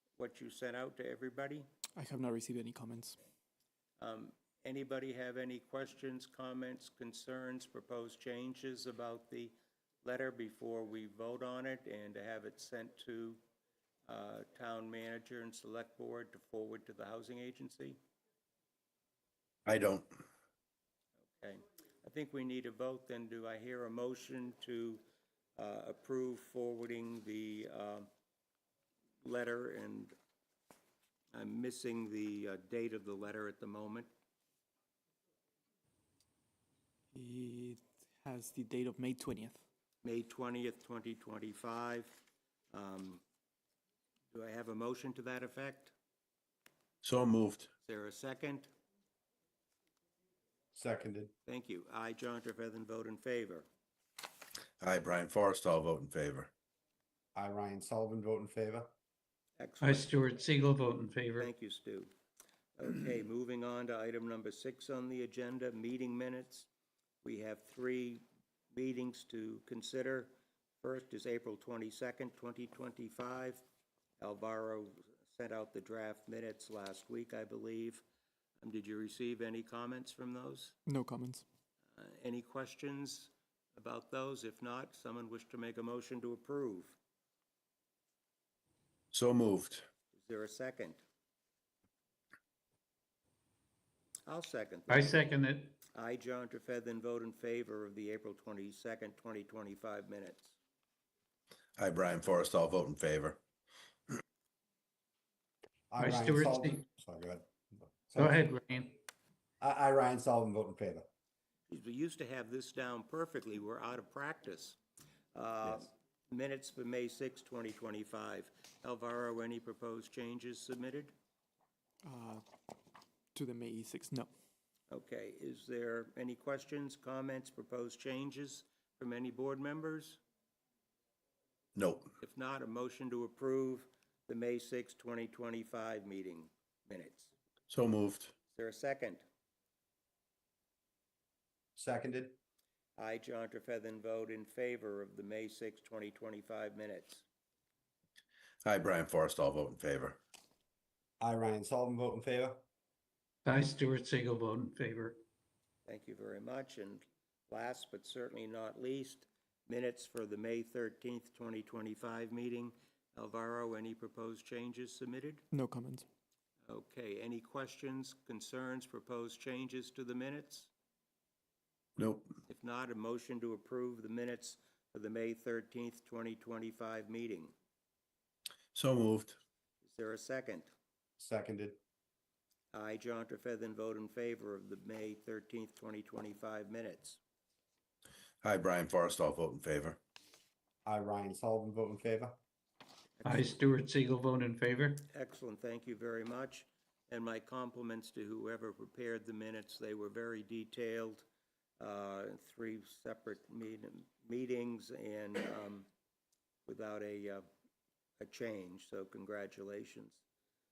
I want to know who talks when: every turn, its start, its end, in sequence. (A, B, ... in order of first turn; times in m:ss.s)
0:00.2-0:01.6 A
0:02.0-0:03.2 B
0:04.0-0:13.4 A
0:14.1-0:18.0 A
0:19.7-0:20.2 C
0:21.4-0:25.0 A
0:25.6-0:28.1 A
0:29.2-0:30.1 A
0:31.3-0:34.1 A
0:37.1-0:39.6 B
0:40.0-0:43.2 A
0:44.3-0:45.9 A
0:47.0-0:47.7 C
0:47.8-0:48.7 A
0:50.7-0:51.3 D
0:51.5-0:53.7 A
0:54.8-0:56.5 C
0:57.4-0:58.9 D
0:59.6-1:00.5 A
0:59.8-1:01.5 E
1:01.4-1:02.1 A
1:02.8-1:06.7 A
1:07.2-1:13.6 A
1:14.2-1:18.0 A
1:18.6-1:20.8 A
1:20.9-1:21.4 B
1:21.9-1:27.0 A
1:29.1-1:29.9 C
1:30.1-1:31.0 A
1:34.3-1:35.3 A
1:34.9-1:35.8 E
1:36.0-1:40.6 A
1:41.8-1:43.4 C
1:45.9-1:48.5 D
1:46.0-1:46.8 E
1:48.2-1:48.9 E
1:49.6-1:51.0 D
1:51.7-1:54.8 A
1:55.4-2:01.1 A
2:02.0-2:02.4 B
2:03.3-2:04.3 B
2:04.9-2:10.2 A
2:11.8-2:12.1 C
2:12.2-2:17.3 A
2:17.7-2:18.3 C
2:18.5-2:19.2 A
2:21.8-2:22.4 D
2:23.0-2:27.2 A
2:28.6-2:30.2 C
2:31.2-2:32.6 D
2:33.5-2:35.2 E
2:35.9-2:45.4 A
2:45.5-2:46.0 B
2:46.6-2:50.7 A
2:52.0-2:52.3 C
2:52.5-2:57.5 A
2:58.7-2:59.4 C
2:59.8-3:00.7 A
3:01.2-3:01.8 D
3:02.7-3:07.2 A
3:08.4-3:10.0 C
3:10.9-3:12.4 D
3:13.2-3:13.6 A
3:13.2-3:15.1 E
3:15.1-3:21.2 A
3:21.8-3:25.9 A
3:26.7-3:27.4 A
3:28.2-3:30.2 A